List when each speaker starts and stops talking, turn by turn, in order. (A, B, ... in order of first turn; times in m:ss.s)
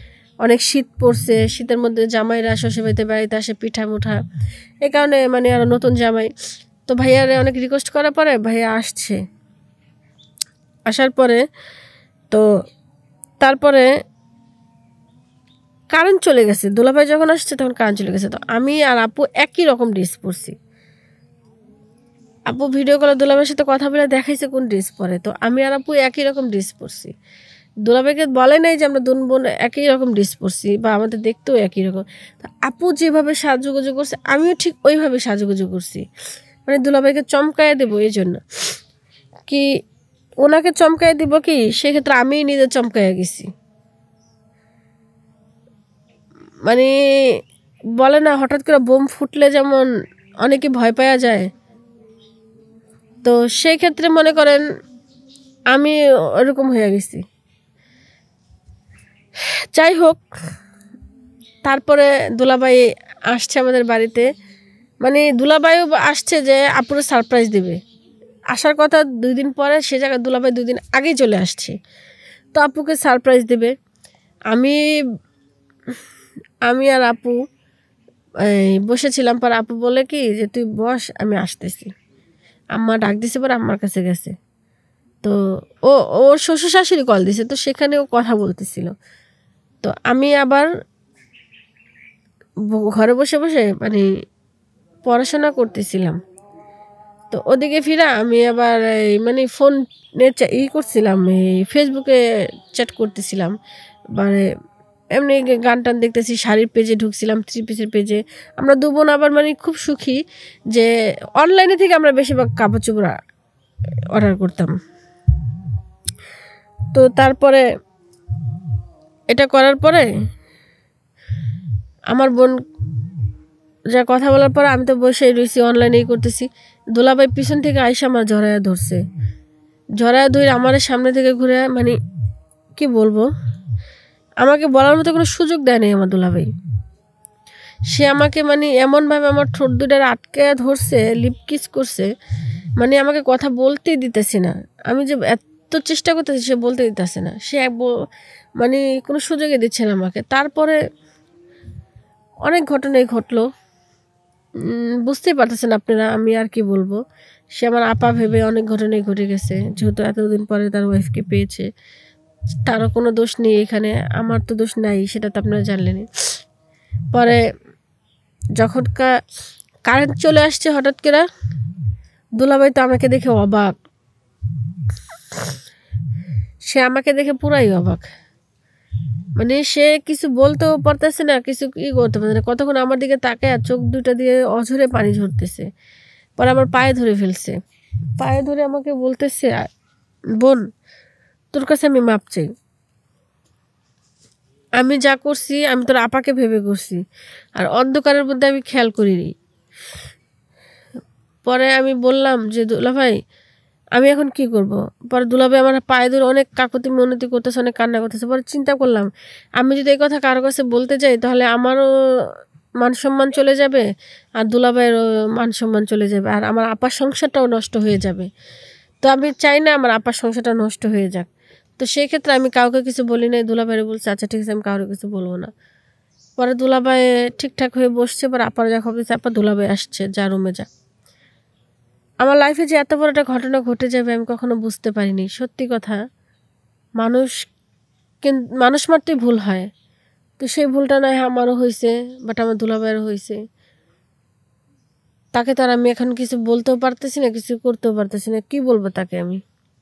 0:00.4-0:04.2 A
0:04.9-0:06.3 A
0:06.9-0:09.2 A
0:10.9-0:11.4 A
0:13.4-0:13.9 A
0:15.9-0:20.6 A
0:22.5-0:27.1 A
0:27.8-0:36.0 A
0:36.7-0:38.4 A
0:40.4-0:43.5 A
0:46.7-0:47.4 A
0:48.0-0:49.9 A
0:50.4-0:51.5 A
0:53.2-0:54.6 A
0:55.7-0:57.2 A
0:59.7-1:00.2 A
1:01.7-1:04.3 A
1:05.0-1:07.8 A
1:08.5-1:11.8 A
1:12.5-1:13.7 A
1:14.5-1:14.8 A
1:16.7-1:17.4 A
1:18.4-1:21.9 A
1:22.8-1:24.4 A
1:25.9-1:28.9 A
1:29.8-1:30.7 A
1:32.7-1:34.0 A
1:35.1-1:36.2 A
1:37.3-1:42.2 A
1:42.7-1:43.5 A
1:44.2-1:44.4 A
1:45.2-1:50.2 A
1:50.7-1:53.2 A
1:54.1-1:54.8 A
1:56.9-1:57.6 A
1:59.3-2:00.1 A
2:02.1-2:02.6 A
2:03.9-2:09.0 A
2:10.0-2:12.0 A
2:12.8-2:13.3 A
2:14.4-2:16.5 A
2:17.9-2:22.1 A
2:22.8-2:27.9 A
2:28.6-2:30.8 A
2:32.5-2:33.5 A
2:35.1-2:37.0 A
2:37.6-2:41.7 A
2:42.7-2:46.1 A
2:47.1-2:47.4 A
2:48.6-2:49.1 A
2:49.9-2:51.2 A
2:52.4-2:53.7 A
2:56.7-2:58.1 A
2:59.4-3:05.7 A
3:06.4-3:07.6 A
3:08.2-3:09.6 A
3:10.4-3:10.7 A
3:11.5-3:12.5 A
3:14.8-3:17.0 A
3:17.6-3:19.3 A
3:21.5-3:23.2 A
3:24.0-3:29.1 A
3:29.6-3:32.3 A
3:32.8-3:33.8 A
3:34.4-3:38.3 A
3:39.0-3:41.3 A
3:41.8-3:45.5 A
3:46.4-3:50.7 A
3:52.2-3:56.0 A
3:57.0-3:57.3 A
3:58.2-3:59.7 A
4:00.4-4:03.4 A
4:05.3-4:09.4 A